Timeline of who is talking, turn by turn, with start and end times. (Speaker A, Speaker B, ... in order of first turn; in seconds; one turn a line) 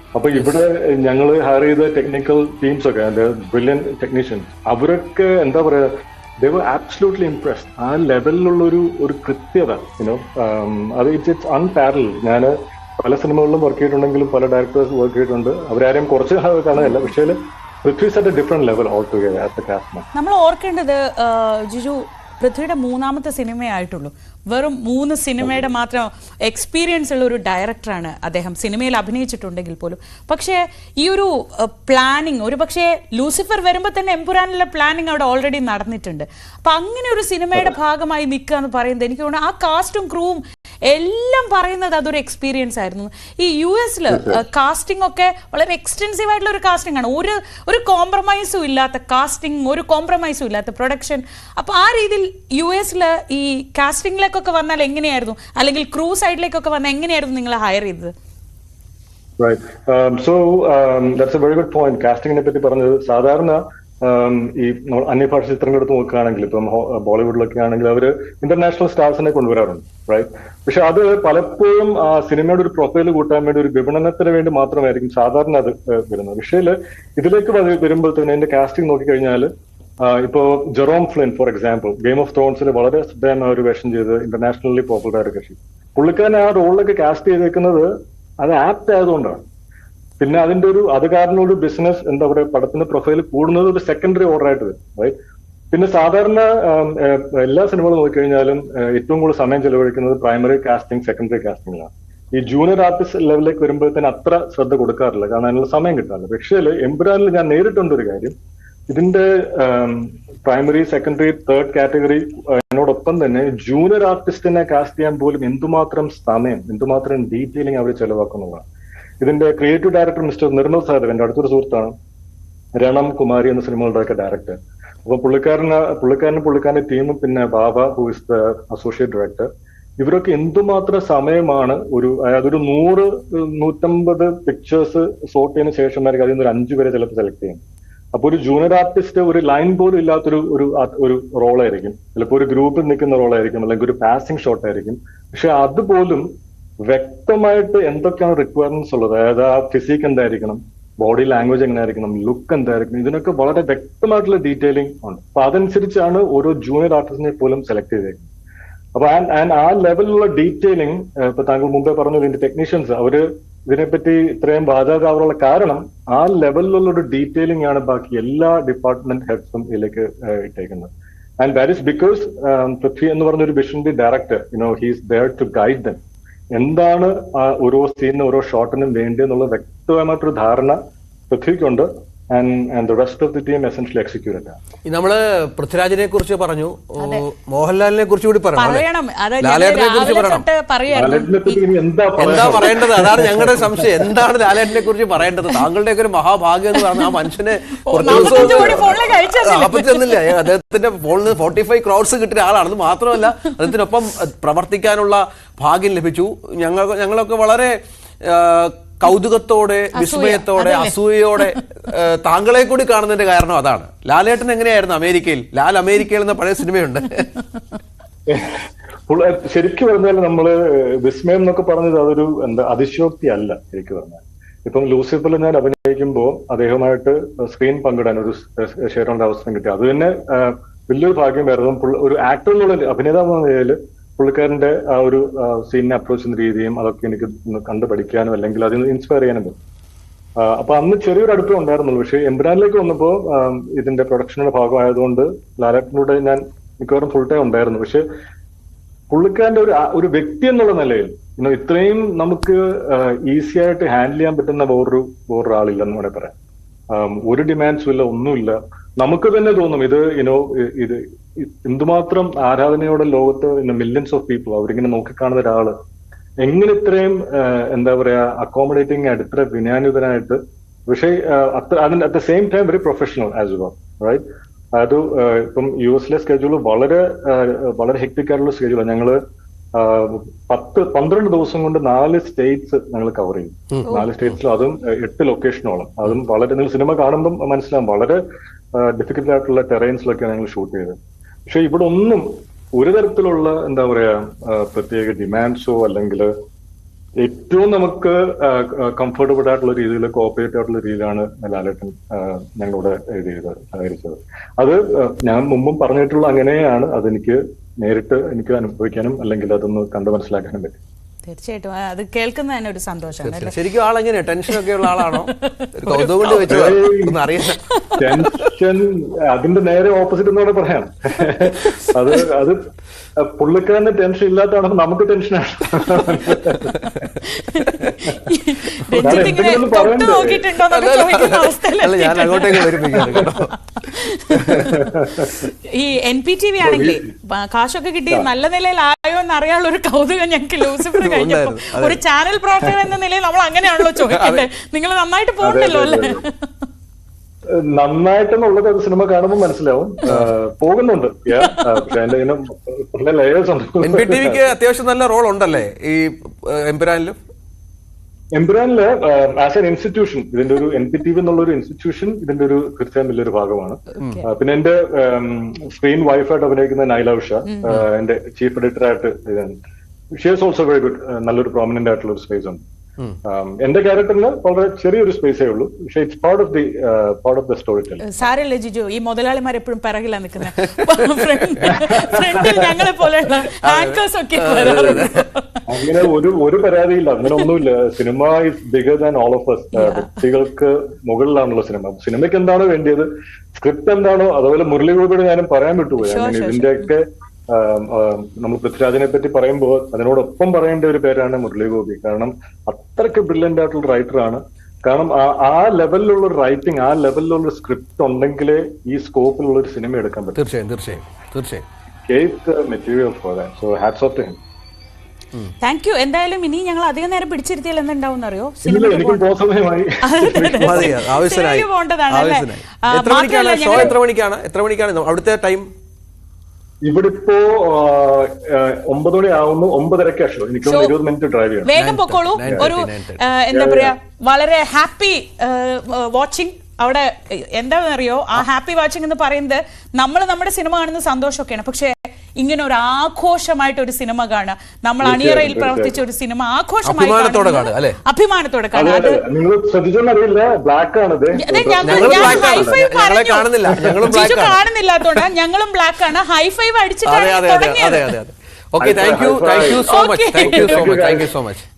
Speaker A: 0.1-20.1
Speaker B: 16.8-17.0
Speaker B: 20.1-58.1
Speaker A: 44.1-44.4
Speaker A: 59.4-79.5
Speaker A: 80.0-89.4
Speaker A: 90.2-95.1
Speaker A: 95.7-108.3
Speaker A: 108.9-118.6
Speaker A: 119.2-121.9
Speaker A: 122.8-137.6
Speaker A: 138.1-146.3
Speaker A: 146.8-158.3
Speaker A: 158.9-176.0
Speaker A: 176.5-180.8
Speaker A: 181.3-184.6
Speaker C: 184.9-188.8
Speaker B: 187.0-187.2
Speaker B: 188.6-191.6
Speaker C: 189.4-190.4
Speaker A: 190.9-193.9
Speaker C: 192.2-217.3
Speaker B: 192.4-192.9
Speaker B: 197.9-200.2
Speaker A: 198.0-198.9
Speaker B: 209.9-211.5
Speaker A: 218.3-239.6
Speaker A: 240.4-248.0
Speaker A: 249.1-256.3
Speaker A: 256.9-265.7
Speaker A: 266.4-274.2
Speaker A: 274.7-279.2
Speaker A: 279.7-288.2
Speaker A: 288.7-290.9
Speaker A: 291.5-296.3
Speaker A: 297.2-310.8
Speaker B: 311.2-313.5
Speaker C: 313.2-317.6
Speaker B: 314.6-316.4
Speaker A: 316.3-317.2
Speaker B: 317.7-318.1
Speaker A: 318.0-322.6
Speaker A: 323.2-326.8
Speaker B: 327.3-335.0
Speaker C: 328.8-329.3
Speaker A: 329.0-330.4
Speaker C: 330.7-333.5
Speaker A: 332.9-333.2
Speaker C: 334.3-334.8
Speaker A: 334.6-335.3
Speaker B: 335.6-346.5
Speaker A: 336.6-337.0
Speaker C: 340.9-342.0
Speaker C: 344.0-344.4
Speaker A: 345.4-346.3
Speaker A: 347.5-354.4
Speaker B: 351.4-351.8
Speaker C: 353.8-357.1
Speaker A: 358.3-369.6
Speaker B: 363.9-364.3
Speaker B: 367.4-367.8
Speaker A: 370.1-372.6
Speaker A: 373.2-378.1
Speaker B: 378.0-385.6
Speaker C: 380.6-382.6
Speaker A: 381.6-382.6
Speaker C: 383.6-385.2
Speaker A: 384.6-385.0
Speaker A: 385.7-410.4
Speaker B: 389.8-390.2
Speaker B: 396.0-396.9
Speaker C: 410.4-411.6
Speaker A: 412.1-414.4
Speaker B: 415.6-419.3
Speaker A: 418.6-420.9
Speaker B: 420.0-423.9
Speaker C: 420.6-425.7
Speaker A: 426.8-431.7
Speaker B: 430.6-430.9
Speaker B: 431.6-449.2
Speaker C: 431.8-433.2
Speaker A: 432.4-432.7
Speaker A: 433.5-433.9
Speaker A: 445.0-446.0
Speaker C: 446.8-448.0
Speaker A: 448.7-452.8
Speaker B: 451.4-453.5
Speaker C: 451.8-454.6
Speaker A: 453.7-454.1
Speaker B: 454.1-458.2
Speaker C: 457.0-461.7
Speaker A: 458.8-461.3
Speaker B: 459.9-460.9